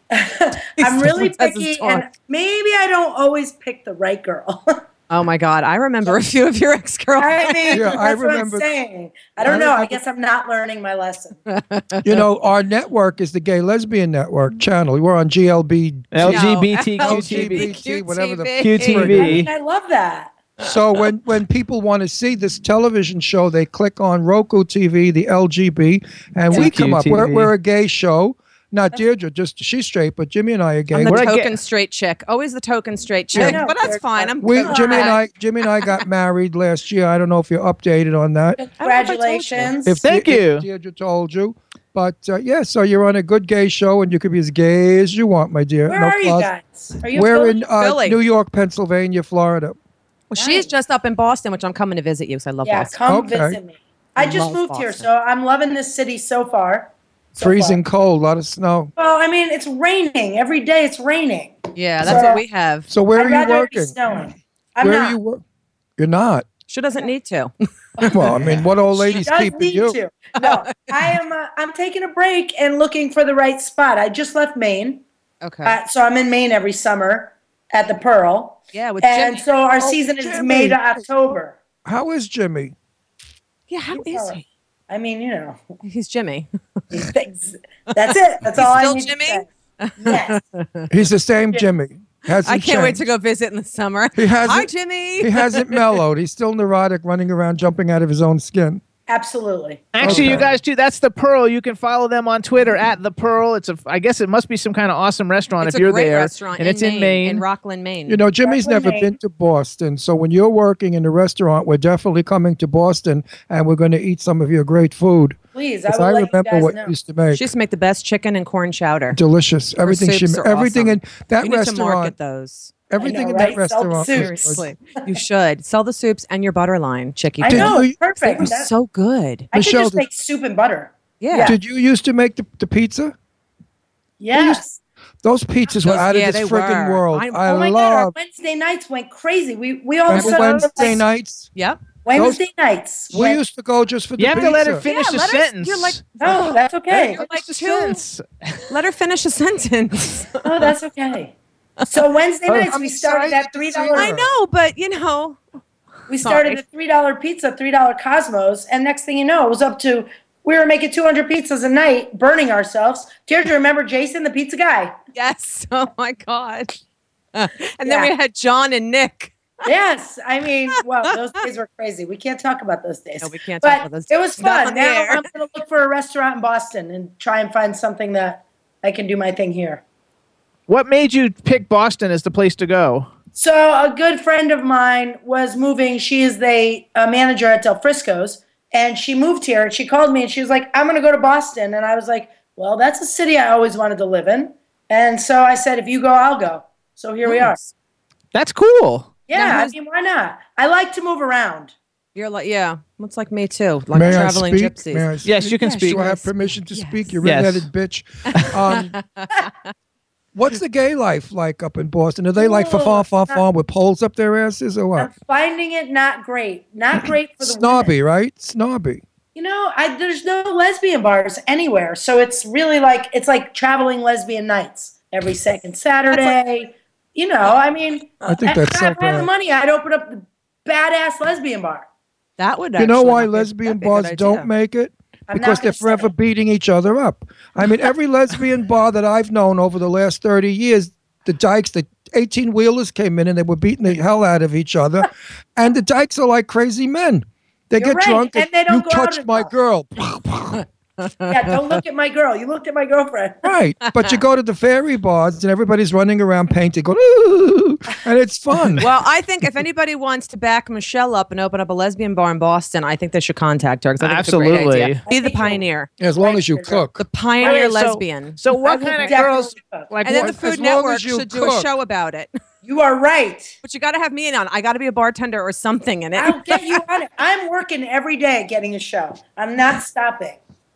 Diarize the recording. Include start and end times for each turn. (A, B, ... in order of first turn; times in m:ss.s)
0:00.1-0:04.8 A
0:00.8-0:02.1 B
0:05.1-0:07.9 B
0:07.2-0:11.4 A
0:07.7-0:08.7 C
0:09.4-0:10.0 C
0:11.5-0:12.2 B
0:12.0-0:19.5 C
0:16.1-0:17.7 D
0:16.2-0:19.4 B
0:18.6-0:19.5 D
0:19.2-0:20.4 A
0:20.6-0:31.3 C
0:26.5-0:27.5 D
0:30.9-0:35.2 B
0:31.1-0:31.6 D
0:33.3-0:35.2 A
0:33.3-0:33.7 C
0:34.4-0:38.6 C
0:38.6-0:40.0 A
0:38.8-0:39.9 B
0:39.7-0:46.5 C
0:40.0-0:40.7 D
0:45.9-0:47.7 A
0:47.1-0:49.8 C
0:47.8-0:48.2 B
0:50.3-0:53.0 B
0:50.4-0:50.7 A
0:52.6-0:57.8 A
0:53.1-0:53.6 C
0:54.2-0:55.1 B
0:57.4-0:58.9 C
0:59.0-1:02.4 A
1:01.8-1:02.9 B
1:02.0-1:02.3 C
1:02.9-1:04.0 C
1:03.0-1:05.2 A
1:04.8-1:05.4 C
1:06.0-1:06.5 C
1:06.7-1:08.7 B
1:08.0-1:08.4 A
1:08.1-1:10.0 C
1:08.9-1:15.0 A
1:10.4-1:11.1 B
1:15.4-1:15.8 B
1:15.6-1:21.6 A
1:18.7-1:19.5 B
1:19.8-1:21.0 C
1:21.8-1:22.8 C
1:23.7-1:24.4 B
1:23.9-1:25.8 A
1:25.8-1:27.0 B
1:26.9-1:29.5 A
1:28.0-1:30.9 B
1:30.0-1:30.4 A
1:30.9-1:33.1 C
1:32.3-1:36.0 B
1:34.2-1:38.8 C
1:39.1-1:40.4 A
1:39.9-1:47.4 D
1:40.0-1:40.6 C
1:40.1-1:40.3 B
1:45.6-1:48.3 B
1:48.1-1:57.5 C
1:48.4-1:49.2 A
1:55.5-1:56.9 A
1:57.3-1:59.2 B
1:59.1-2:02.2 C
1:59.8-2:02.8 B
2:02.9-2:04.7 C
2:03.0-2:04.6 A
2:03.9-2:09.5 B
2:07.4-2:08.7 A
2:07.4-2:08.5 C
2:09.5-2:10.0 C
2:09.5-2:11.6 A
2:11.2-2:11.6 B
2:11.4-2:13.2 C
2:14.2-2:14.8 A
2:14.3-2:14.6 C
2:15.2-2:18.1 C
2:15.8-2:17.5 B
2:17.4-2:21.0 A
2:20.1-2:20.8 B
2:20.1-2:21.5 C
2:21.6-2:21.8 B
2:22.0-2:23.4 A
2:22.2-2:22.4 C
2:23.1-2:24.9 C
2:24.2-2:26.0 D
2:24.3-2:28.0 B
2:26.2-2:27.2 A
2:27.0-2:28.6 D
2:28.7-2:30.7 B
2:30.4-2:31.3 A
2:31.9-2:34.2 A
2:32.5-2:34.3 C
2:33.9-2:35.4 B
2:36.1-2:45.0 A
2:36.2-2:36.6 B
2:45.1-2:46.8 B
2:47.3-2:49.4 B
2:47.8-2:48.1 A
2:49.7-2:59.8 A
2:50.8-2:51.2 B
2:53.2-2:55.3 B
3:00.7-3:03.1 D
3:03.3-3:17.6 A
3:17.2-3:17.7 B
3:18.3-3:19.1 D
3:19.3-3:21.7 A
3:19.3-3:19.7 B
3:22.2-3:27.2 B
3:23.9-3:29.0 C
3:25.2-3:26.0 D
3:27.2-3:27.7 D
3:28.4-3:29.7 B
3:30.4-3:35.1 C
3:32.4-3:33.4 A
3:35.0-3:37.9 A
3:37.4-3:39.0 C
3:39.4-3:51.9 A
3:46.1-3:46.4 B
3:48.2-3:49.3 C
3:52.4-3:54.5 B
3:52.8-4:10.7 C
3:55.3-3:56.1 A
4:07.8-4:09.5 A
4:11.0-4:11.6 B
4:11.3-4:13.5 A
4:13.4-4:18.9 C
4:13.8-4:14.2 B
4:18.8-4:25.9 B
4:24.0-4:25.0 D
4:25.1-4:26.9 A
4:26.0-4:27.1 C
4:27.0-4:29.2 B
4:27.4-4:30.4 D
4:28.7-4:29.9 A
4:30.0-4:32.3 B
4:30.1-4:31.7 C
4:32.6-4:33.6 A
4:33.6-4:36.8 B
4:36.2-4:40.4 A